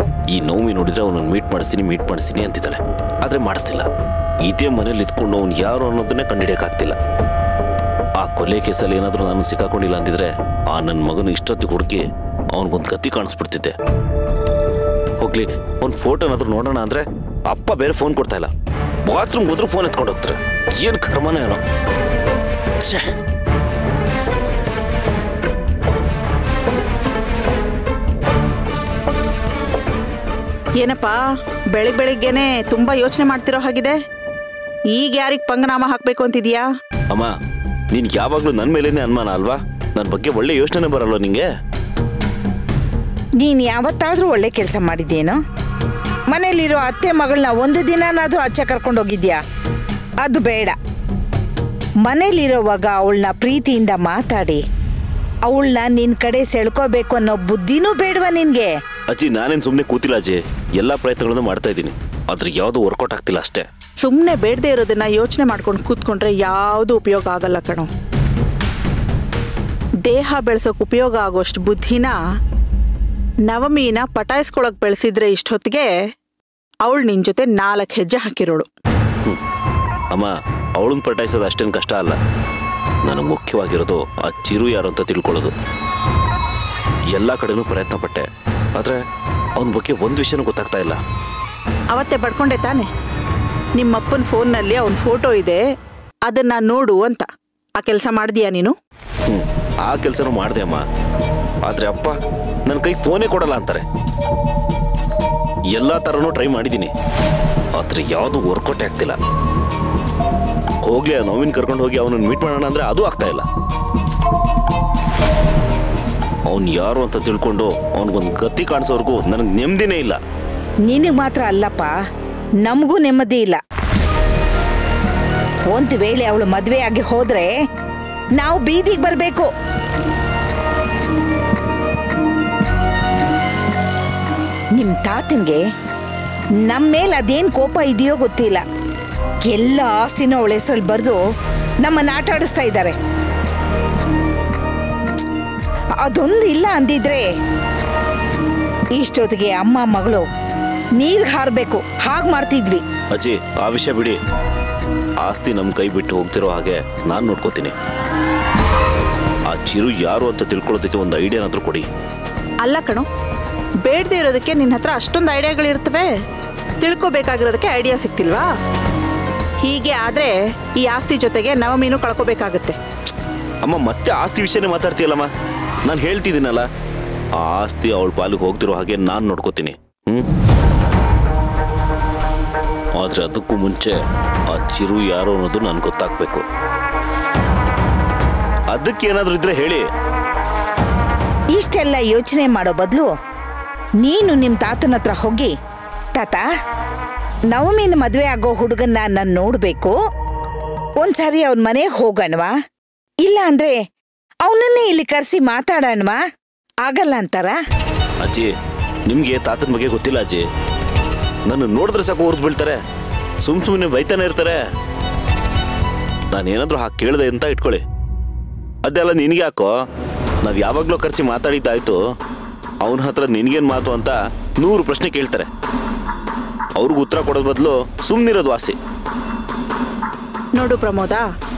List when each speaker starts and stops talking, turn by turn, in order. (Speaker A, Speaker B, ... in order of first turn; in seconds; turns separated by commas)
Speaker A: 0.3-3.9, Speaker A: 4.4-7.0, Speaker A: 8.2-13.7, Speaker A: 15.2-18.5, Speaker A: 19.0-21.6, Speaker A: 22.8-23.1, Speaker B: 30.8-31.2, Speaker B: 31.7-34.0, Speaker B: 34.9-36.6, Speaker A: 37.1-37.3, Speaker A: 37.9-41.5, Speaker C: 43.4-45.4, Speaker C: 46.3-49.4, Speaker C: 50.2-50.7, Speaker C: 52.0-54.6, Speaker C: 55.5-58.7, Speaker A: 59.1-63.6, Speaker B: 64.0-67.9, Speaker B: 70.0-72.1, Speaker B: 73.5-75.9, Speaker B: 76.8-78.7, Speaker A: 80.1-82.2, Speaker A: 83.0-85.5, Speaker A: 87.1-89.0, Speaker A: 89.6-91.0, Speaker B: 91.9-92.8, Speaker B: 93.8-95.6, Speaker B: 96.3-97.2, Speaker B: 97.8-98.7, Speaker A: 99.3-100.8, Speaker A: 101.6-103.8, Speaker A: 105.7-106.9, Speaker A: 107.7-109.2, Speaker A: 110.8-113.5, Speaker A: 116.5-120.2, Speaker C: 120.9-121.9, Speaker C: 122.6-123.6, Speaker C: 125.7-127.5, Speaker C: 128.4-129.5, Speaker C: 134.8-135.6, Speaker C: 136.6-138.6, Speaker C: 139.5-141.2, Speaker C: 141.8-142.9, Speaker C: 146.0-147.2, Speaker C: 148.9-150.2, Speaker C: 151.0-152.8, Speaker A: 153.1-154.2, Speaker A: 155.2-157.7, Speaker A: 159.5-161.9, Speaker B: 162.6-163.1, Speaker B: 163.8-166.1, Speaker B: 166.8-168.5, Speaker B: 169.6-172.8, Speaker A: 173.6-175.3, Speaker A: 175.8-176.7, Speaker A: 177.3-180.3, Speaker A: 182.9-186.4, Speaker A: 188.7-189.8, Speaker C: 191.5-193.1, Speaker C: 194.0-195.5, Speaker C: 196.2-196.4, Speaker C: 197.5-199.9, Speaker C: 201.0-202.5, Speaker C: 203.2-203.8, Speaker C: 204.4-206.2, Speaker C: 206.8-207.6, Speaker A: 208.2-208.5, Speaker A: 209.1-210.4, Speaker A: 211.4-212.8, Speaker A: 213.4-214.6, Speaker A: 216.3-217.8, Speaker A: 218.8-219.8, Speaker A: 220.4-222.0, Speaker A: 222.8-225.5, Speaker A: 226.8-228.8, Speaker B: 230.6-231.2